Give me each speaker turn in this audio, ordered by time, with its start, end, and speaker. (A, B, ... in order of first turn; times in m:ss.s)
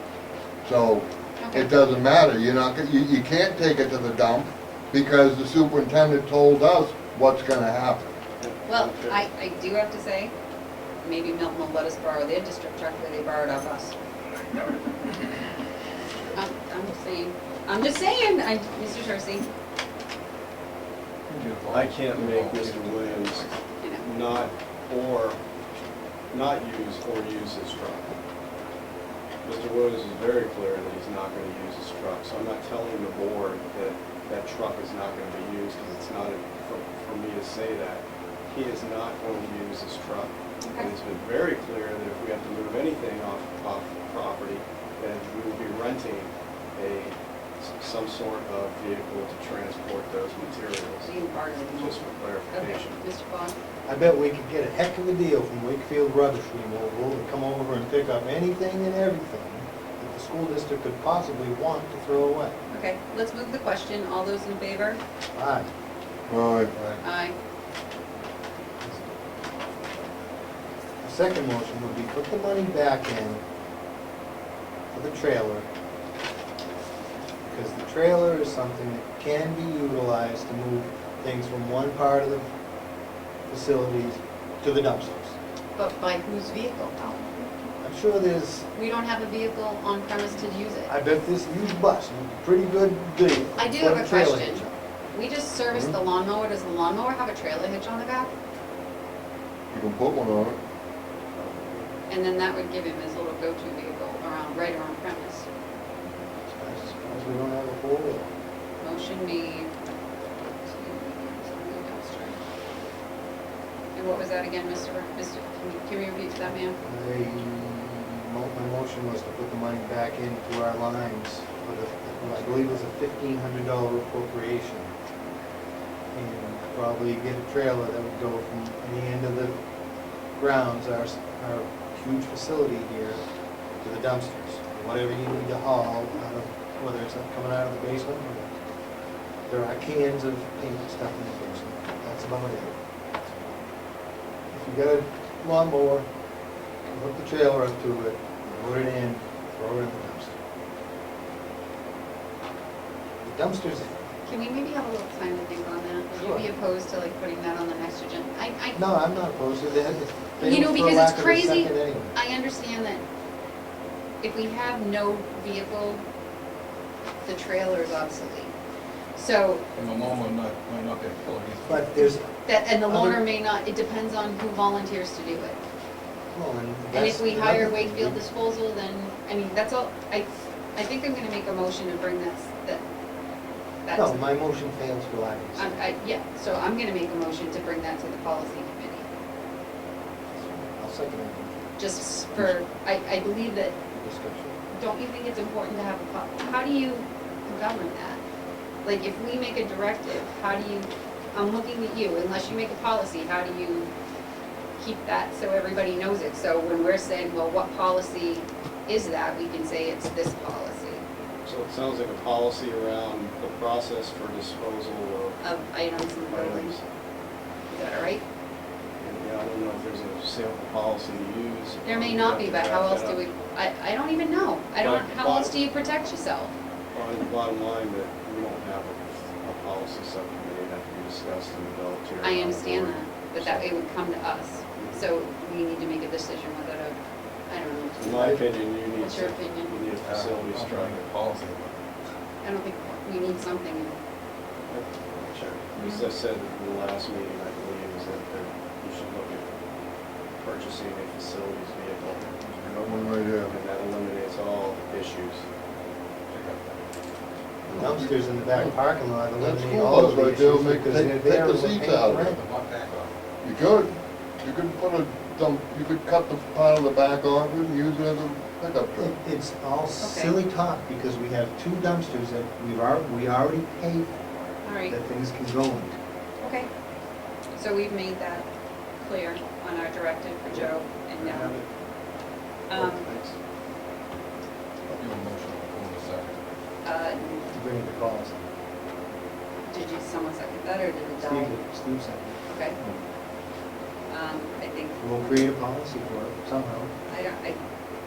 0:00.6-0:08.1 A
0:01.4-0:01.7 B
0:08.4-0:09.2 C
0:08.6-0:10.3 B
0:11.0-0:14.0 B
0:16.3-0:19.5 B
0:21.3-0:23.5 D
0:21.7-0:23.4 C
0:24.0-0:25.4 C
0:26.3-0:28.2 C
0:29.4-0:51.1 C
0:40.6-0:40.9 B
0:51.0-0:53.5 B
0:51.8-0:53.0 C
0:53.8-1:02.6 E
1:02.7-1:05.0 B
1:05.3-1:05.7 E
1:06.3-1:06.7 A
1:06.7-1:07.0 E
1:07.0-1:07.3 B
1:08.8-1:09.1 E
1:11.0-1:13.4 E
1:14.9-1:15.7 E
1:17.4-1:22.5 E
1:23.5-1:25.4 E
1:25.8-1:27.4 B
1:27.8-1:28.7 E
1:28.7-1:30.9 B
1:30.9-1:34.8 E
1:33.6-1:38.3 B
1:39.7-1:40.6 A
1:41.4-1:41.7 C
1:42.1-1:45.5 B
1:46.6-1:48.3 E
1:48.8-1:49.7 B
1:50.6-1:52.4 B
1:53.9-1:56.8 B
1:56.8-2:04.9 E
2:06.1-2:09.6 E
2:10.4-2:13.2 E
2:13.8-2:18.5 E
2:19.5-2:23.6 E
2:24.5-2:26.1 E
2:26.8-2:30.4 E
2:33.2-2:34.0 E
2:34.2-2:38.8 B
2:36.2-2:36.5 E
2:38.7-2:42.1 E
2:40.4-2:43.0 B
2:44.2-2:46.0 B
2:47.2-2:48.5 B
2:49.1-2:49.6 B
2:49.8-2:51.9 D
2:51.6-2:52.3 E
2:52.4-2:55.6 B
2:52.9-2:53.2 E
2:56.3-2:58.2 E
2:56.9-3:02.8 B
3:03.8-3:04.2 B
3:03.9-3:05.8 E
3:05.6-3:09.0 B
3:10.3-3:11.8 E
3:11.8-3:13.8 B
3:12.3-3:12.6 E
3:13.9-3:14.6 E
3:14.7-3:18.2 B
3:18.8-3:23.9 B
3:24.8-3:31.0 B
3:31.4-3:35.4 C
3:35.4-3:36.7 B
3:36.3-3:36.8 C
3:37.7-3:38.2 B
3:39.0-3:43.2 C
3:41.8-3:46.5 B
3:44.8-3:45.6 C
3:46.9-3:53.7 C
3:52.2-3:59.8 B
3:54.8-3:55.0 C
3:58.0-4:01.1 C
3:58.1-3:58.4 E
4:00.0-4:01.7 D
4:02.4-4:04.0 B
4:04.7-4:09.4 C
4:05.8-4:06.1 B
4:10.4-4:15.4 C
4:12.8-4:13.5 A
4:16.3-4:16.8 D
4:17.7-4:18.8 A
4:17.7-4:22.4 E
4:19.4-4:22.3 A
4:22.2-4:23.2 D
4:23.4-4:29.1 A
4:29.0-4:34.2 E
4:30.0-4:30.4 B
4:34.6-4:35.0 B
4:34.9-4:36.0 E
4:36.4-4:36.7 B
4:37.6-4:38.5 B
4:39.0-4:41.6 B
4:41.2-4:41.7 C
4:42.7-4:43.1 B
4:42.7-4:43.4 C
4:45.0-4:46.4 D
4:46.8-4:47.5 B
4:47.5-4:48.4 E
4:49.7-4:51.6 B
4:51.2-4:53.0 E
4:52.4-4:52.8 B
4:54.1-4:55.6 B
4:55.0-4:56.9 E
4:57.1-4:57.6 B